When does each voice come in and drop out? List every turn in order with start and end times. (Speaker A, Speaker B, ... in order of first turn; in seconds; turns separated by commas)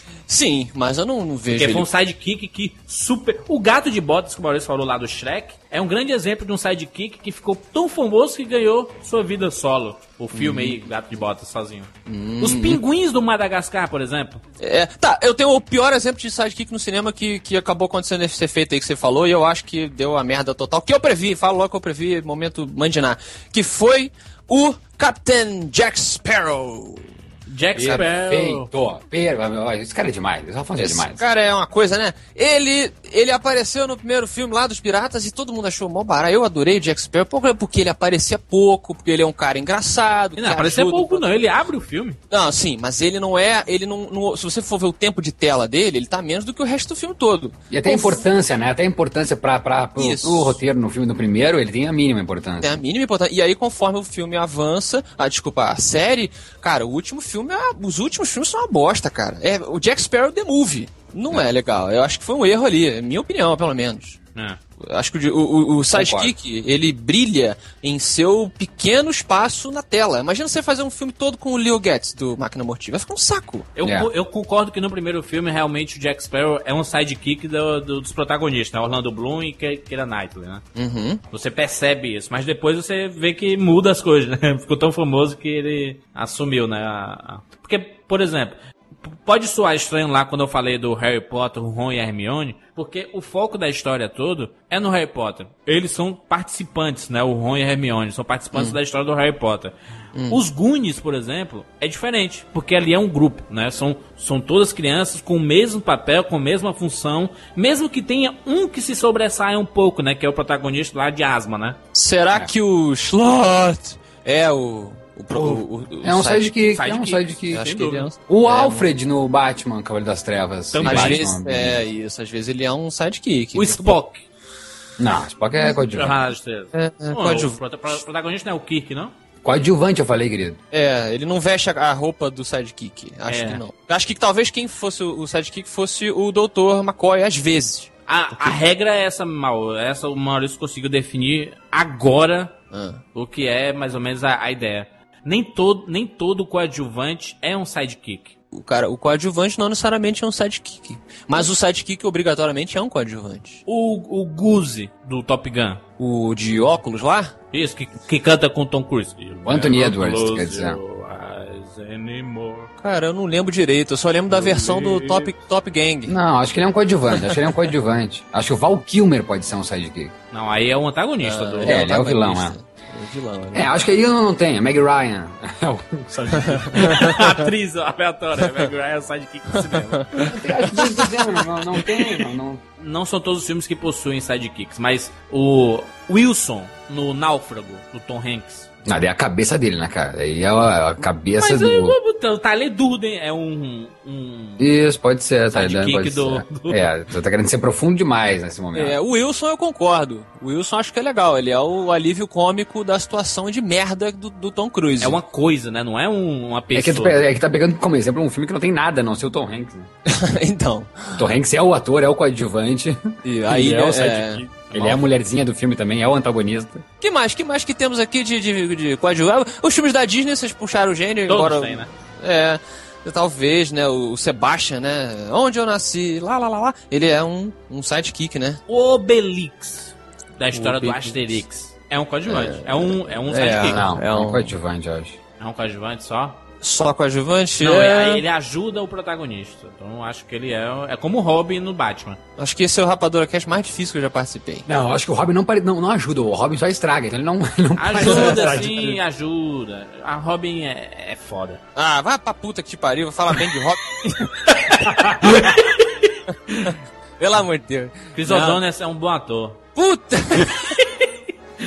Speaker A: 0.3-1.9, Speaker B: 1.5-11.9, Speaker A: 10.3-10.8, Speaker A: 12.1-12.8, Speaker B: 12.4-14.4, Speaker A: 14.6-27.1, Speaker B: 27.5-28.7, Speaker C: 27.8-31.2, Speaker A: 30.8-41.2, Speaker B: 40.4-42.2, Speaker A: 42.3-48.2, Speaker C: 47.7-52.8, Speaker A: 50.0-50.6, Speaker A: 52.6-64.2, Speaker A: 64.8-73.7, Speaker C: 65.9-66.3, Speaker B: 73.8-80.6, Speaker C: 73.8-74.1, Speaker A: 80.7-81.2, Speaker B: 81.3-99.7, Speaker A: 100.1-100.4, Speaker B: 100.3-111.8, Speaker A: 111.9-116.8, Speaker C: 115.3-117.7, Speaker B: 116.7-118.1, Speaker A: 117.5-118.9, Speaker C: 118.2-121.8, Speaker B: 120.7-121.2, Speaker A: 120.8-124.0, Speaker B: 123.5-124.2, Speaker C: 125.0-126.2, Speaker B: 125.9-129.1, Speaker A: 126.7-127.6, Speaker C: 129.4-130.6, Speaker A: 130.7-138.6, Speaker B: 133.3-133.6, Speaker B: 138.1-142.5, Speaker A: 142.7-143.0, Speaker B: 143.1-148.3, Speaker A: 148.5-153.6, Speaker B: 153.7-155.8, Speaker A: 156.0-157.3, Speaker B: 157.5-162.7, Speaker C: 159.4-160.8, Speaker A: 162.8-166.1, Speaker B: 164.3-165.3, Speaker C: 166.1-170.1, Speaker B: 170.3-171.9, Speaker A: 171.2-173.7, Speaker C: 171.6-172.5, Speaker C: 173.5-177.1, Speaker A: 176.4-177.3, Speaker B: 176.7-180.0, Speaker A: 179.5-181.4, Speaker C: 180.2-182.6, Speaker B: 182.8-188.7, Speaker C: 188.8-191.9, Speaker B: 191.4-194.7, Speaker C: 194.6-199.0, Speaker B: 195.5-196.9, Speaker A: 198.7-205.2, Speaker B: 205.0-207.2, Speaker C: 206.7-209.9, Speaker A: 210.1-211.2, Speaker C: 211.2-213.0, Speaker A: 213.2-215.0, Speaker C: 213.5-216.8, Speaker A: 217.0-228.6, Speaker B: 221.3-221.9, Speaker B: 228.7-233.8, Speaker A: 230.5-231.4, Speaker A: 232.3-234.5, Speaker C: 233.7-235.2, Speaker B: 235.4-236.4, Speaker A: 236.6-238.2, Speaker B: 237.6-242.2, Speaker A: 242.4-244.7, Speaker C: 244.7-249.0, Speaker B: 247.8-251.6, Speaker A: 248.0-248.7, Speaker A: 251.8-254.3, Speaker B: 254.4-256.7, Speaker C: 255.0-255.4, Speaker A: 256.6-258.6, Speaker B: 258.1-259.6, Speaker A: 259.8-260.7, Speaker B: 260.7-261.0